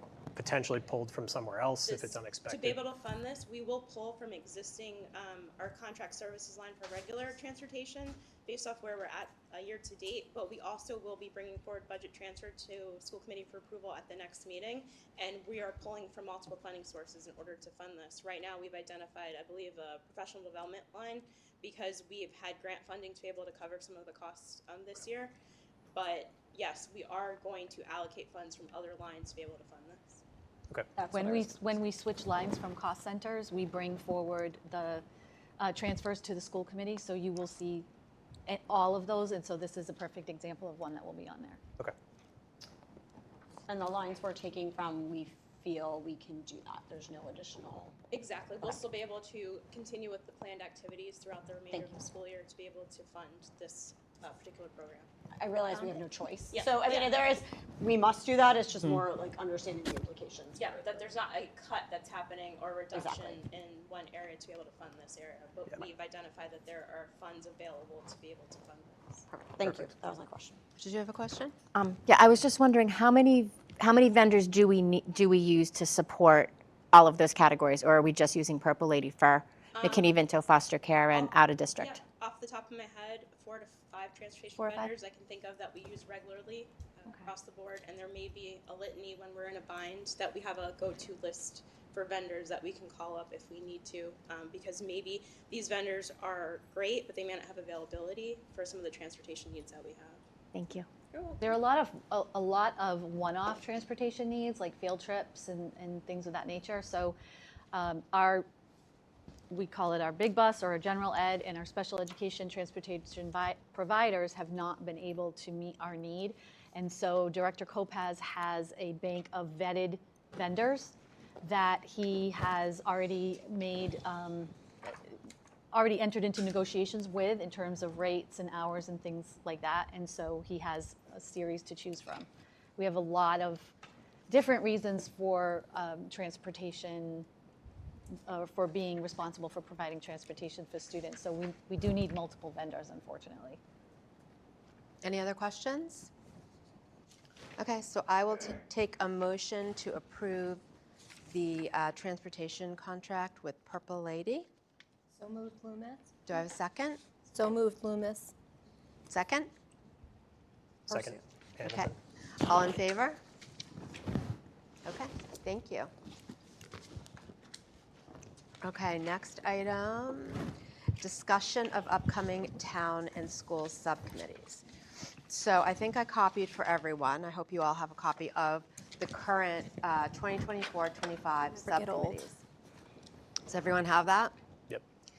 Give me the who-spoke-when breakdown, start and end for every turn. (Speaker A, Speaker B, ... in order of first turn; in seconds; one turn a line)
Speaker A: 0.3-2.8
Speaker B: 1.9-25.4
Speaker B: 25.9-30.2
Speaker C: 31.0-31.5
Speaker D: 31.1-35.0
Speaker D: 35.6-37.9
Speaker D: 38.5-41.6
Speaker C: 43.7-48.0
Speaker B: 48.1-55.1
Speaker C: 51.7-52.0
Speaker C: 55.4-61.1
Speaker B: 56.5-57.2
Speaker B: 60.5-69.3
Speaker C: 62.9-63.4
Speaker C: 69.3-70.6
Speaker A: 69.6-69.9
Speaker E: 70.8-71.5
Speaker F: 71.7-82.0
Speaker B: 79.7-80.2
Speaker B: 81.1-100.2
Speaker F: 84.6-84.9
Speaker F: 100.5-100.9
Speaker B: 101.1-101.5
Speaker D: 101.4-107.2
Speaker D: 107.7-108.5
Speaker D: 109.5-124.9
Speaker D: 125.7-133.7
Speaker D: 134.3-137.3
Speaker D: 138.3-143.6
Speaker E: 145.0-146.1
Speaker E: 147.6-150.6
Speaker E: 151.3-154.5
Speaker G: 155.1-156.4
Speaker E: 156.3-157.0
Speaker G: 157.3-158.3
Speaker E: 159.1-159.5
Speaker A: 160.9-162.0
Speaker E: 161.6-161.9
Speaker E: 162.4-163.2
Speaker E: 164.8-165.9
Speaker E: 168.6-170.5
Speaker E: 171.0-174.7
Speaker E: 175.3-182.4
Speaker F: 181.7-182.2
Speaker E: 183.5-184.3